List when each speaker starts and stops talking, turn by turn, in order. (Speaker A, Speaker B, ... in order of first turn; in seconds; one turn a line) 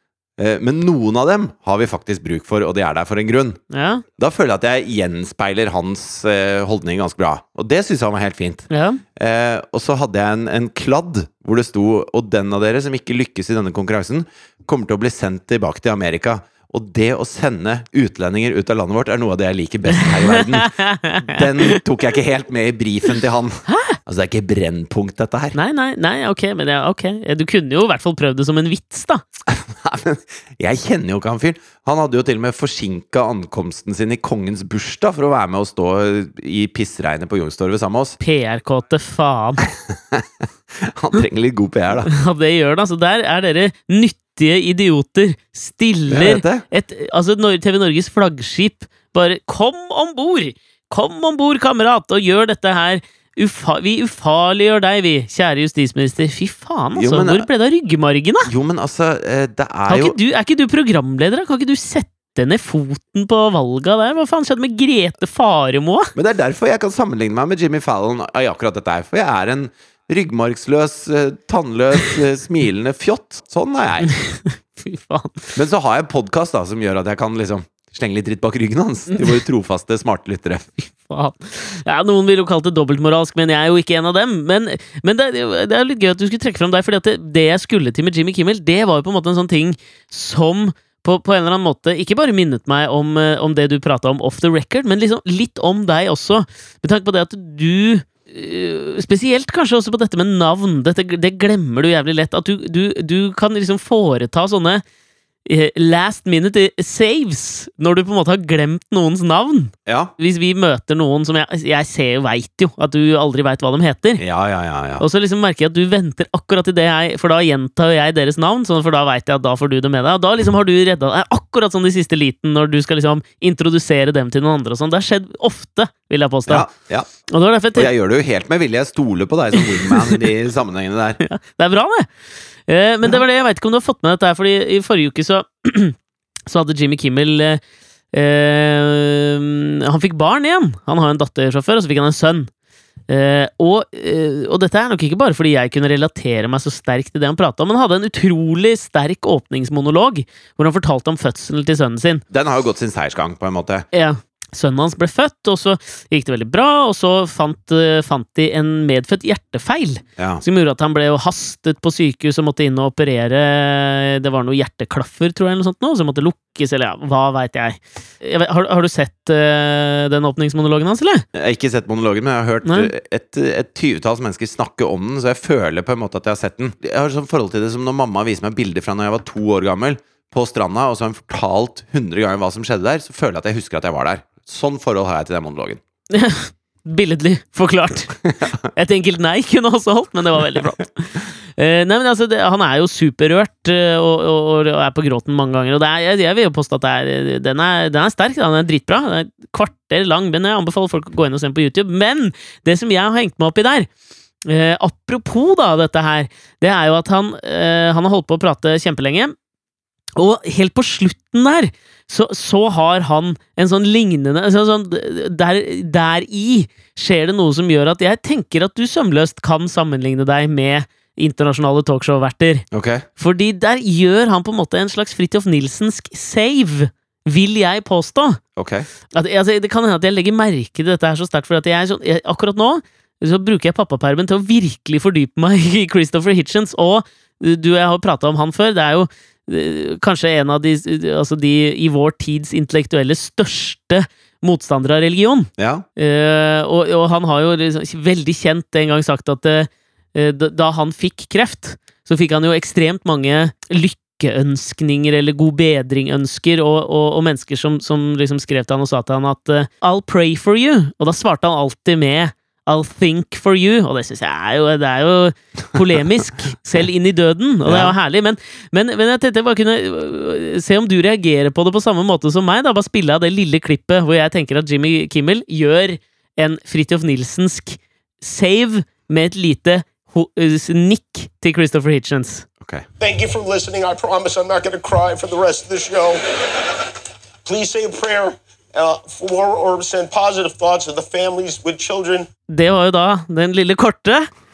Speaker A: 0.4-3.6
Speaker B: 3.7-4.0
Speaker A: 4.2-25.6
Speaker B: 8.7-9.0
Speaker B: 20.0-21.8
Speaker B: 23.7-24.0
Speaker B: 25.6-29.2
Speaker A: 29.5-38.2
Speaker B: 38.2-39.6
Speaker A: 39.6-42.1
Speaker B: 42.1-58.5
Speaker A: 46.1-46.6
Speaker A: 57.0-57.5
Speaker A: 58.5-60.2
Speaker B: 59.9-66.1
Speaker A: 66.2-74.1
Speaker B: 74.1-75.6
Speaker A: 75.5-80.9
Speaker B: 81.1-104.8
Speaker B: 105.5-114.2
Speaker A: 109.9-110.1
Speaker A: 114.2-115.0
Speaker B: 115.0-126.7
Speaker A: 126.5-127.1
Speaker B: 127.3-127.9
Speaker A: 127.8-131.2
Speaker B: 129.6-130.2
Speaker B: 131.2-132.1
Speaker B: 132.7-136.0
Speaker B: 136.5-137.6
Speaker B: 138.1-142.5
Speaker B: 143.1-152.2
Speaker A: 152.3-153.9
Speaker B: 153.9-171.2
Speaker A: 160.2-160.4
Speaker A: 171.3-185.8
Speaker B: 172.7-172.9
Speaker B: 186.1-203.9
Speaker B: 204.5-209.3
Speaker B: 210.2-222.7
Speaker A: 222.7-223.1
Speaker B: 223.2-228.4
Speaker A: 228.6-228.9
Speaker B: 229.1-282.5
Speaker A: 245.6-245.8
Speaker A: 267.7-267.9
Speaker C: 283.0-286.2
Speaker C: 287.4-292.3
Speaker B: 292.5-294.3